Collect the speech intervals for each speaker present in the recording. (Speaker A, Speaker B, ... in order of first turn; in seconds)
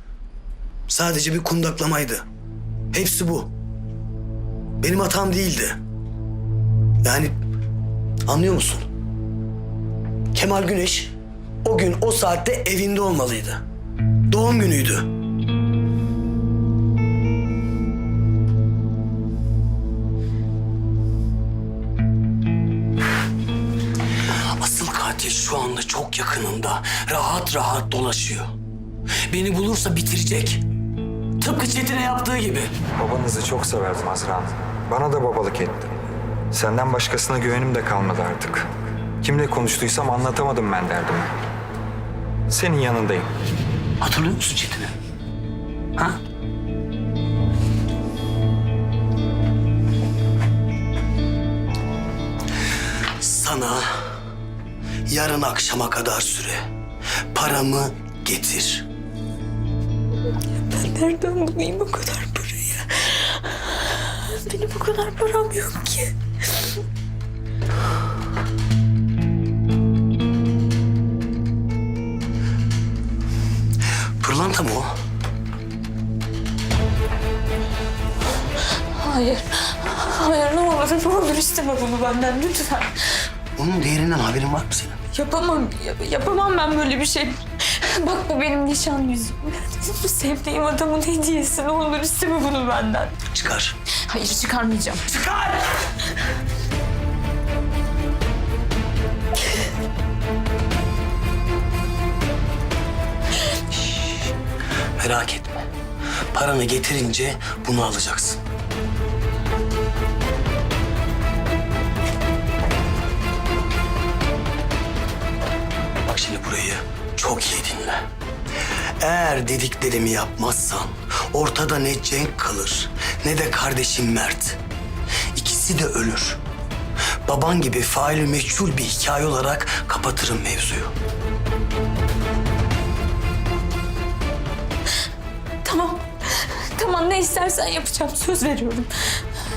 Speaker A: 0.9-2.2, 2.9-3.5, 4.8-5.8, 7.0-7.3, 8.3-8.9, 10.3-11.1, 11.6-13.6, 14.3-15.1, 24.6-28.5, 29.3-30.6, 31.4-32.8, 44.0-44.9, 53.2-54.0, 55.1-56.6, 57.3-58.9, 74.2-75.0, 83.6-85.0, 93.3-93.8, 105.1-105.6, 106.3-108.4, 116.1-118.0, 119.0-124.6, 125.3-126.4, 127.2-130.9
Speaker B: 32.9-35.9, 36.5-41.3, 42.5-43.3
Speaker C: 60.6-66.8, 78.7-83.2, 85.1-93.2, 94.0-95.9, 135.6-139.2